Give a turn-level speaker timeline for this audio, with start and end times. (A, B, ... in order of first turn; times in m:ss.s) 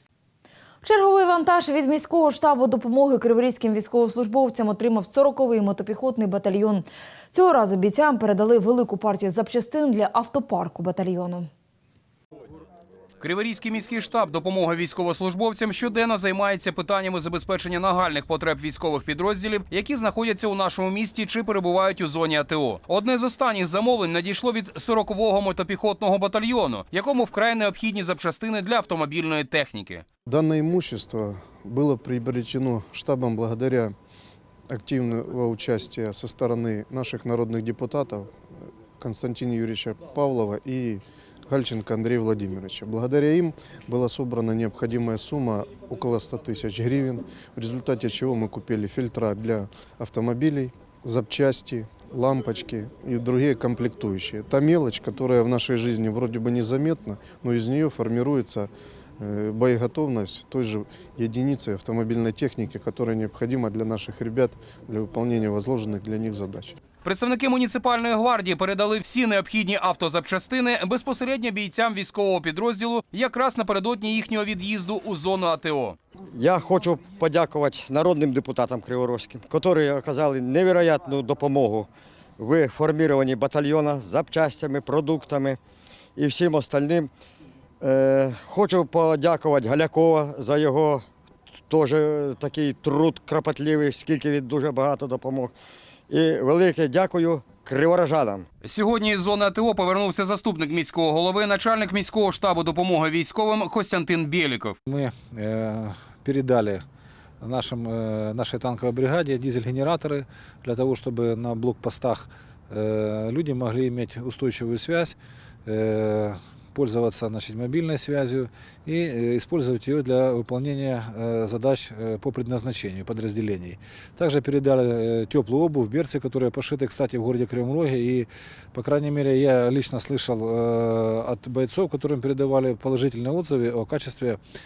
0:00.8-0:11.5 A
0:13.2-0:30.0 B
0:30.3-0:33.9 C
0:34.7-0:38.4 C
0:39.0-1:06.8 C
1:07.0-1:16.0 B
1:16.3-1:21.9 D
1:22.4-1:25.6 D
1:26.2-1:27.1 D
1:27.8-1:31.0 D
1:31.7-1:35.5 D
1:36.1-1:38.4 D
1:38.6-1:44.8 B
1:44.8-1:46.8 E
1:47.4-2:14.4 E